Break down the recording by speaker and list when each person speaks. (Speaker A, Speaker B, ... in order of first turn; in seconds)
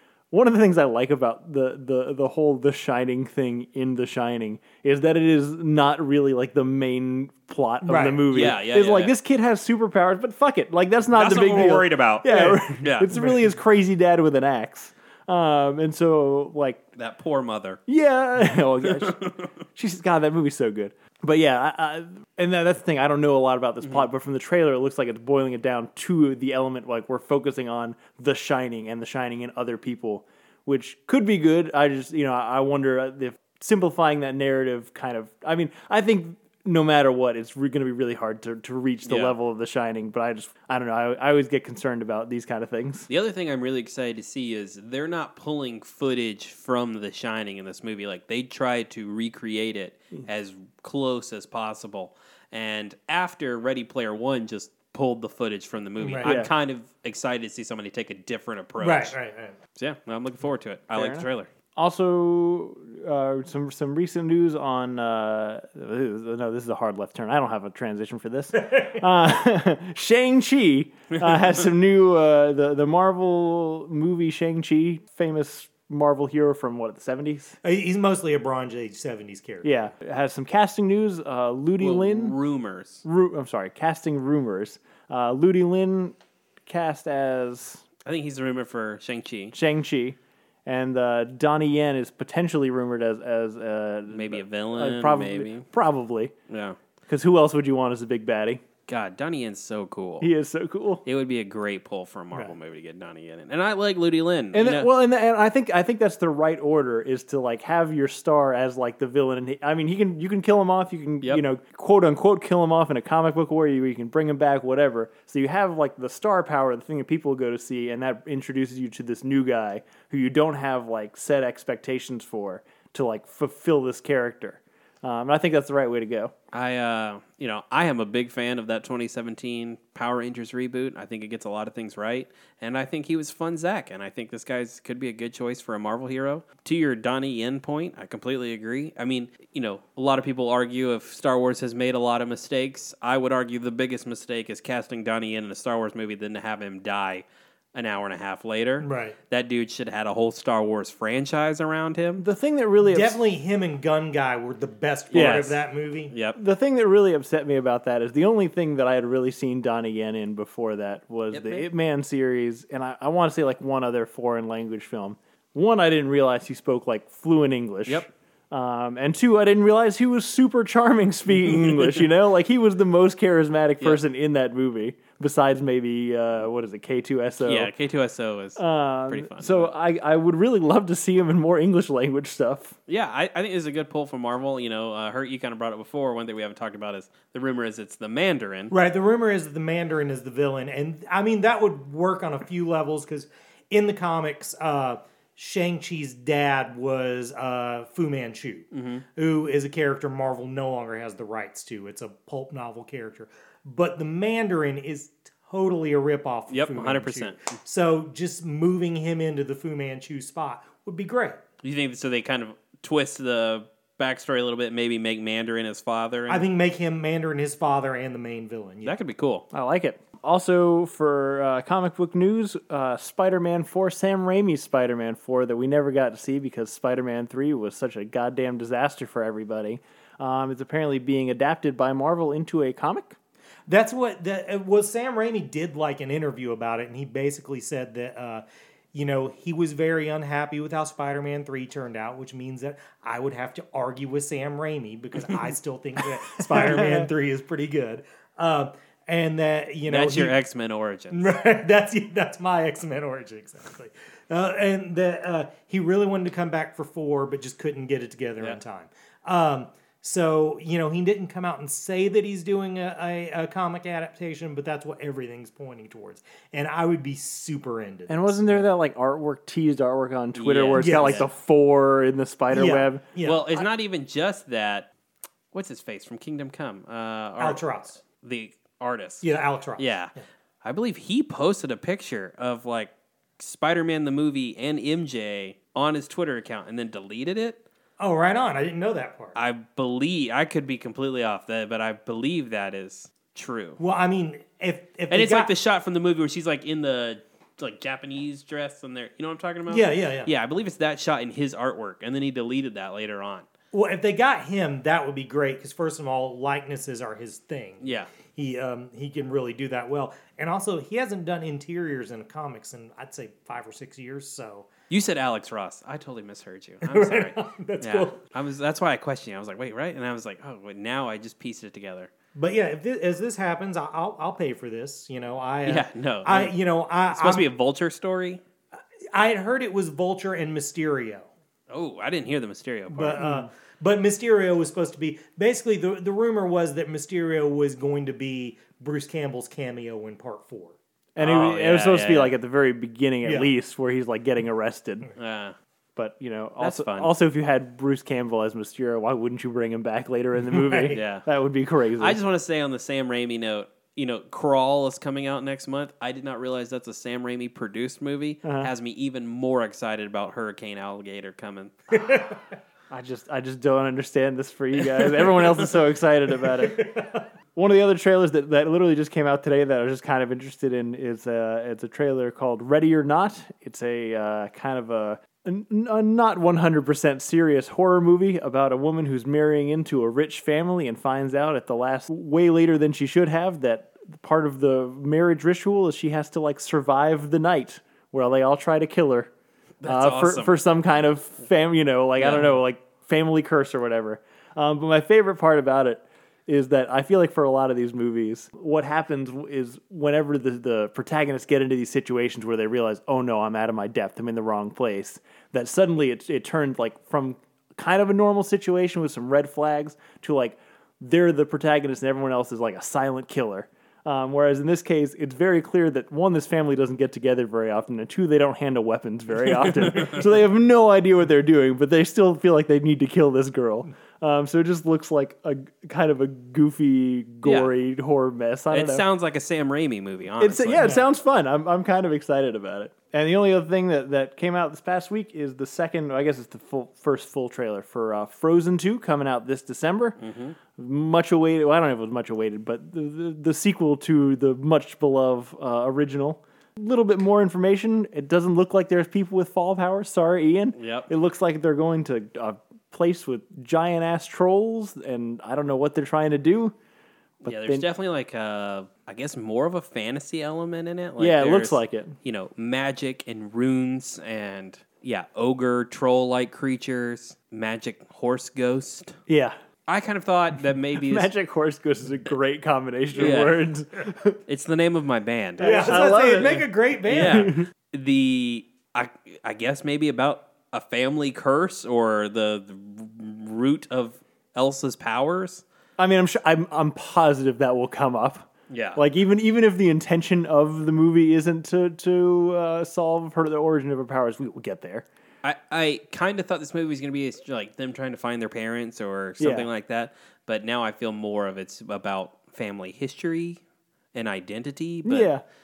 Speaker A: 0.3-16.8, 17.9-43.1, 56.2-56.5, 60.9-77.6, 79.6-82.4, 83.0-87.8, 89.5-96.3, 97.1-98.6, 100.2-101.0, 104.5-126.3, 152.2-153.2, 155.1-155.6, 156.3-177.7, 178.6-182.8, 219.5-233.2, 246.6-247.1, 268.1-273.1, 333.2-333.5, 341.1-345.1, 346.0-352.2, 358.4-358.7, 362.9-366.9, 367.6-389.3, 389.9-429.1, 430.4-440.2, 440.8-456.8, 457.4-457.9, 461.2-462.2, 469.3-469.6, 471.0-474.4, 475.6-476.6, 477.2-477.7, 486.0-495.1, 499.4-499.7, 505.1-505.4
Speaker B: 7.8-8.3, 11.2-12.6, 13.1-13.4, 56.0-56.3, 58.8-59.6, 68.5-69.0, 77.6-79.9, 148.8-149.2, 152.8-156.1, 188.7-211.4, 216.3-218.9, 233.7-250.4, 251.1-268.4, 270.8-271.3, 272.5-273.4, 277.4-277.9, 279.2-280.2, 288.0-289.4, 293.8-295.5, 299.7-300.3, 303.7-314.7, 316.8-318.2, 322.4-327.5, 329.1-331.3, 332.9-340.8, 343.2-343.5, 350.4-351.0, 361.9-362.4, 366.4-367.3, 430.7-431.1, 475.6-477.5
Speaker C: 8.3-9.2, 11.2-13.1, 17.0-17.8, 18.8-19.5, 39.0-39.4, 43.1-59.1, 59.8-61.5, 81.8-83.0, 88.0-89.5, 94.1-95.7, 96.5-96.8, 98.9-100.3, 101.0-104.9, 126.5-152.3, 155.1-155.6, 156.1-156.4, 161.3-161.7, 177.4-179.7, 182.9-188.7, 198.7-199.1, 206.5-207.6, 211.6-216.5, 218.8-219.4, 249.9-251.3, 270.4-271.3, 273.2-274.9, 275.5-279.2, 279.8-287.6, 289.4-293.8, 295.1-303.5, 307.8-308.1, 314.9-322.1, 325.7-326.6, 327.1-328.4, 331.7-333.2, 341.2-342.4, 345.2-345.6, 346.6-347.1, 350.9-351.3, 352.0-361.8, 364.8-365.5, 389.8-390.6, 392.2-392.6, 419.5-420.2, 427.4-427.7, 428.7-431.0, 440.2-440.6, 450.8-451.1, 457.4-469.1, 469.9-471.3, 473.1-473.7, 474.5-485.6, 488.7-489.0, 495.4-503.6, 504.1-505.3